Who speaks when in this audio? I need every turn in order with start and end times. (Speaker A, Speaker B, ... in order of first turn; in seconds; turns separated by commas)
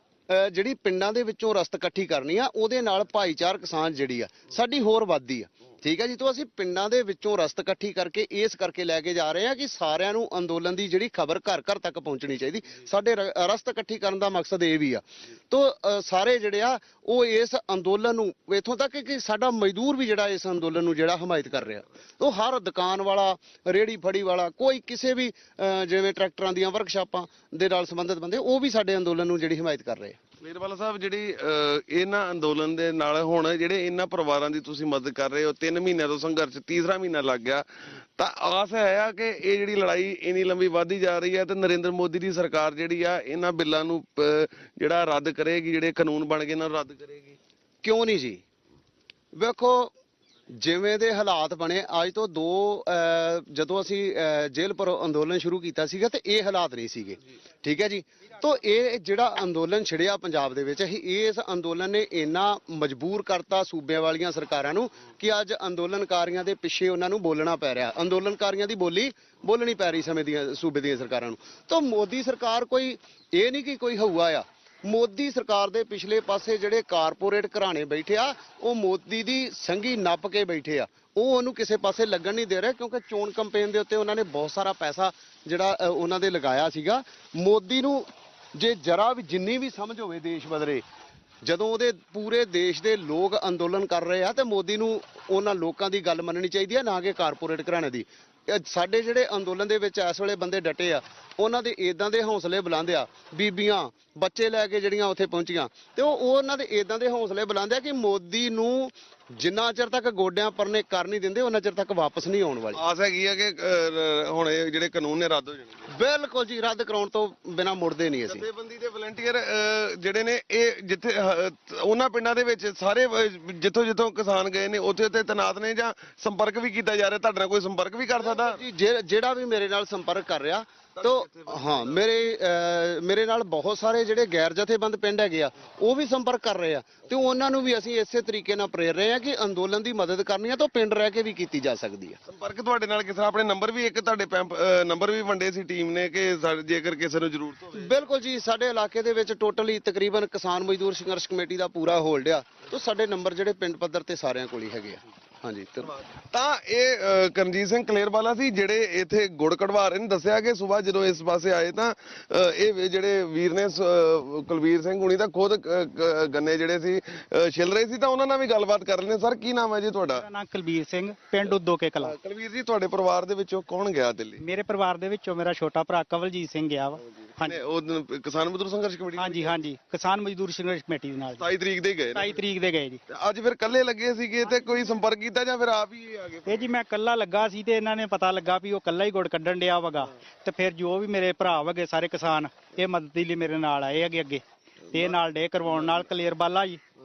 Speaker A: 0.3-30.2, Speaker B: 30.4-37.6, Speaker B: 38.1-47.4, Speaker A: 47.8-48.4, Speaker A: 49.3-49.9, Speaker A: 50.5-90.8, Speaker A: 91.4-112.8, Speaker B: 112.7-115.9, Speaker A: 115.9-118.5, Speaker B: 118.3-128.6, Speaker A: 128.2-142.2, Speaker B: 130.9-132.0, Speaker B: 142.2-148.0, Speaker A: 147.7-155.9, Speaker B: 155.8-170.2, Speaker C: 170.1-172.1, Speaker B: 172.0-174.4, Speaker C: 174.4-177.6, Speaker B: 177.1-179.5, Speaker C: 179.2-181.4, Speaker B: 181.3-182.4, Speaker C: 182.1-183.0, Speaker B: 183.1-186.7, Speaker C: 186.5-196.8, Speaker B: 195.8-196.0